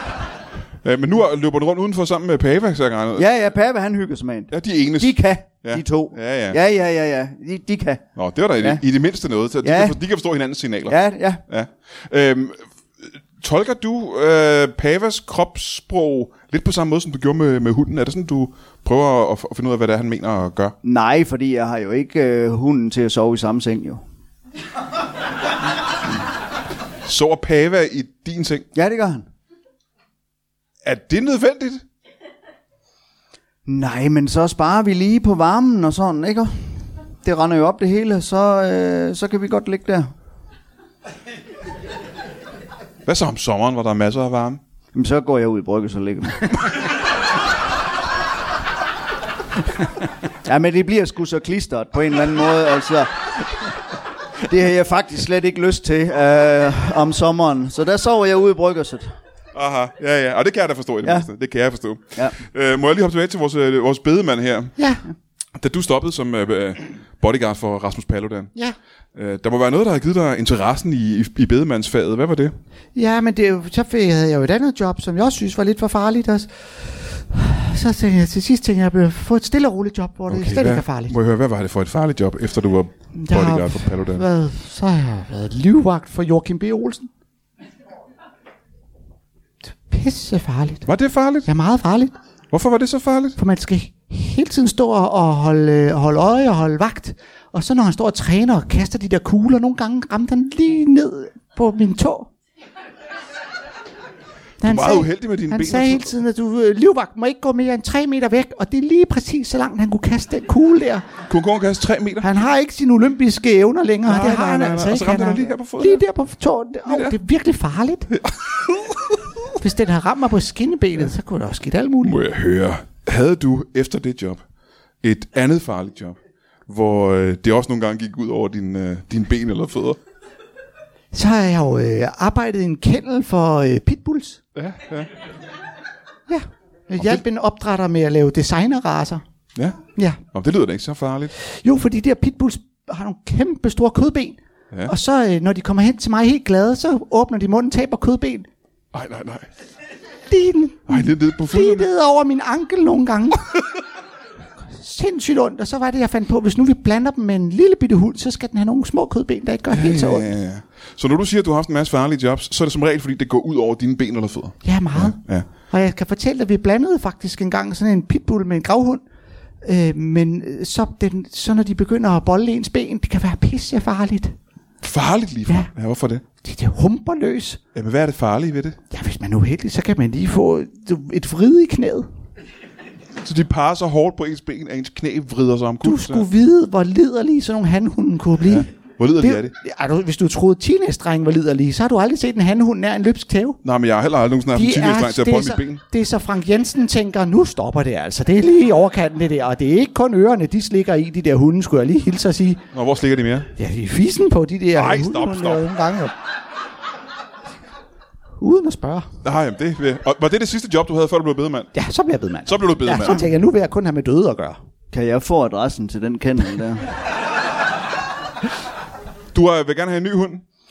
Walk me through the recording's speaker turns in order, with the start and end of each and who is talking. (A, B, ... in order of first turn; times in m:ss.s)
0:00.8-0:03.3 A
0:03.2-0:08.1 B
0:04.5-0:06.6 A
0:08.2-0:20.8 A
0:09.6-0:10.0 B
0:10.9-0:11.4 B
0:20.8-0:24.0 B
0:27.0-0:28.7 A
0:28.7-0:29.2 B
0:30.8-0:31.8 A
0:33.6-0:40.1 B
0:43.0-0:44.6 A
0:44.9-0:46.6 B
0:50.4-0:53.5 B
0:54.4-0:59.2 B
0:59.5-1:04.7 A
1:01.0-1:01.3 B
1:04.8-1:05.0 C
1:05.6-1:08.5 A
1:09.1-1:12.5 A
1:12.9-1:21.1 C
1:20.3-1:24.2 A
1:23.1-1:27.1 C
1:29.9-1:30.9 C
1:30.8-1:31.5 A
1:31.4-1:32.1 C
1:32.5-1:33.4 A
1:33.4-1:42.3 C
1:44.6-1:46.2 A
1:44.6-1:51.0 C
1:51.3-1:52.3 A
1:52.2-1:58.1 C
1:54.0-1:56.0 A
1:56.9-1:57.2 A
1:58.1-1:59.2 A
1:59.5-2:02.2 C
2:02.0-2:04.4 A
2:05.0-2:10.0 A
2:11.1-2:14.4 C
2:14.5-2:15.1 A
2:16.3-2:19.2 C
2:19.5-2:19.8 A
2:19.9-2:20.2 C
2:20.3-2:21.3 A
2:21.3-2:28.5 C
2:28.9-2:29.5 A
2:30.3-2:33.5 C
2:30.9-2:31.9 A
2:34.7-2:40.3 C
2:39.7-2:45.4 A
2:44.6-2:49.0 C
2:49.6-2:54.4 C
2:54.8-2:56.2 A
2:56.4-2:57.6 C
2:57.7-2:58.8 A
2:58.9-3:02.1 C
3:03.2-3:06.2 A
3:05.8-3:13.6 C
3:08.4-3:09.5 A
3:13.6-3:15.8 A
3:14.5-3:22.6 C
3:22.7-3:23.5 A
3:23.6-3:26.1 C
3:24.7-3:25.6 A
3:28.4-3:29.1 C
3:29.2-3:31.7 A
3:31.7-3:34.6 C
3:32.4-3:33.3 A
3:34.9-3:36.9 B
3:39.3-3:40.4 A